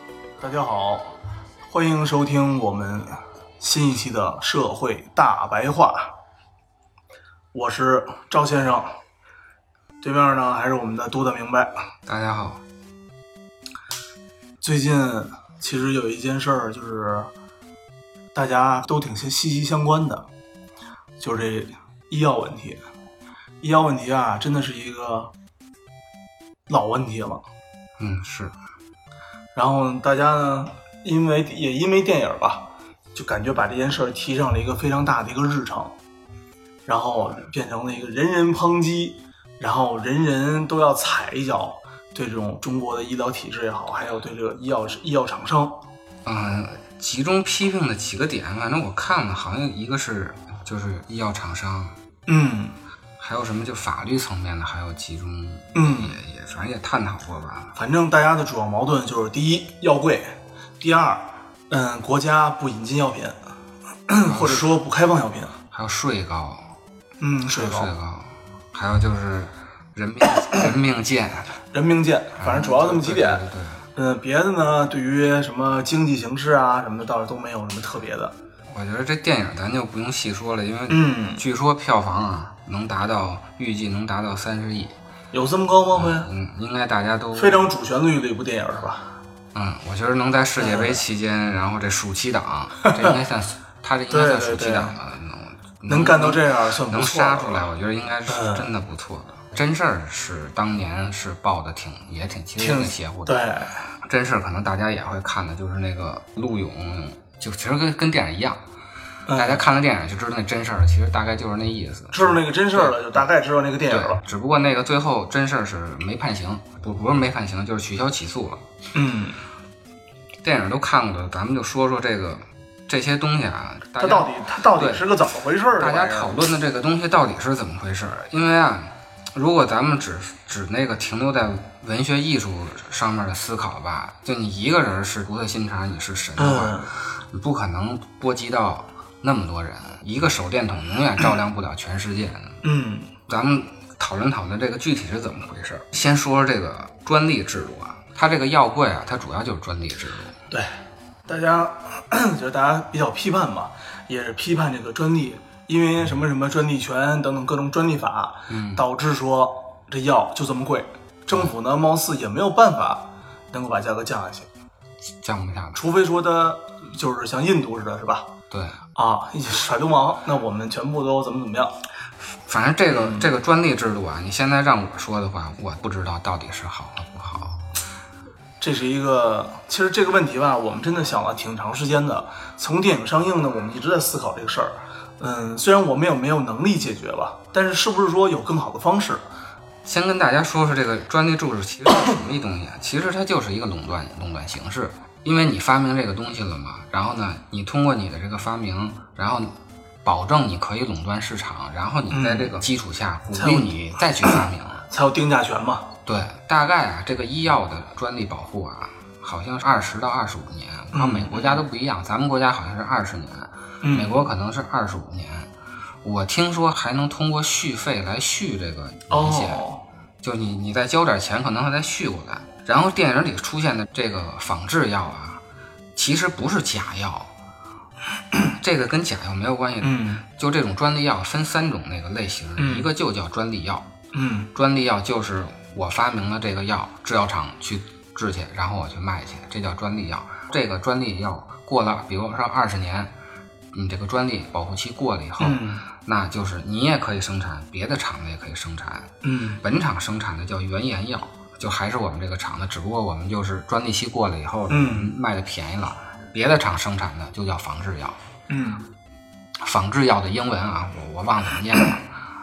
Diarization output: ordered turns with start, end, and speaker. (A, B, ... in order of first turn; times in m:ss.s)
0:00.4-0:01.1 A
0:01.7-0:06.1 A
0:07.5-0:09.0 A
0:10.0-0:11.7 A
0:12.1-0:12.6 B
0:14.6-0:17.3 A
0:18.3-0:20.3 A
0:21.2-0:22.8 A
0:23.6-0:25.3 A
0:26.7-0:27.4 A
0:28.0-0:28.6 B
0:29.6-0:35.9 A
0:36.9-0:45.8 A
0:46.2-0:52.0 B
0:52.3-0:52.8 A
0:53.2-0:57.8 B
0:55.7-0:56.2 A
0:57.8-1:03.4 A
1:04.1-1:05.6 A
1:04.3-1:04.8 B
1:05.7-1:06.7 B
1:07.2-1:07.9 A
1:07.5-1:11.6 B
1:11.7-1:13.4 A
1:12.4-1:13.9 B
1:14.0-1:18.3 A
1:18.7-1:25.0 B
1:20.9-1:21.4 A
1:25.3-1:26.3 A
1:25.9-1:27.7 B
1:27.4-1:29.1 A
1:29.5-1:43.4 B
1:30.6-1:31.0 A
1:32.8-1:33.1 A
1:34.1-1:35.0 A
1:35.9-1:37.7 A
1:38.3-1:38.7 A
1:42.6-1:43.8 A
1:44.0-1:48.6 B
1:49.3-1:49.6 A
1:49.4-1:53.2 B
1:52.1-1:54.2 A
1:53.9-1:58.6 B
1:58.9-1:59.4 A
2:00.4-2:05.2 B
2:04.0-2:06.4 A
2:05.8-2:22.6 B
2:16.4-2:16.9 A
2:22.6-2:23.1 A
2:23.3-2:30.4 B
2:31.3-2:44.5 A
2:38.5-2:38.9 B
2:45.2-2:45.8 B
2:45.8-2:48.3 A
2:48.5-2:48.8 B
2:49.0-2:51.7 A
2:52.4-2:57.6 B
2:52.9-2:53.4 A
2:58.6-3:09.2 A
3:09.8-3:24.8 B
3:22.1-3:22.6 A
3:23.3-3:24.3 A
3:24.9-3:25.9 A
3:26.1-3:35.5 B
3:30.9-3:31.6 A
3:33.8-3:34.2 A
3:36.0-3:39.7 B
3:39.1-3:39.8 A
3:40.2-3:45.4 B
3:46.0-3:47.3 B
3:48.3-3:53.9 B
3:49.8-3:50.2 A
3:52.6-3:52.9 A
3:54.1-3:54.5 A
3:54.5-4:03.1 B
4:03.7-4:18.2 B
4:05.4-4:05.9 A
4:09.2-4:09.6 A
4:14.7-4:15.1 A
4:18.5-4:18.9 A
4:19.6-4:22.2 B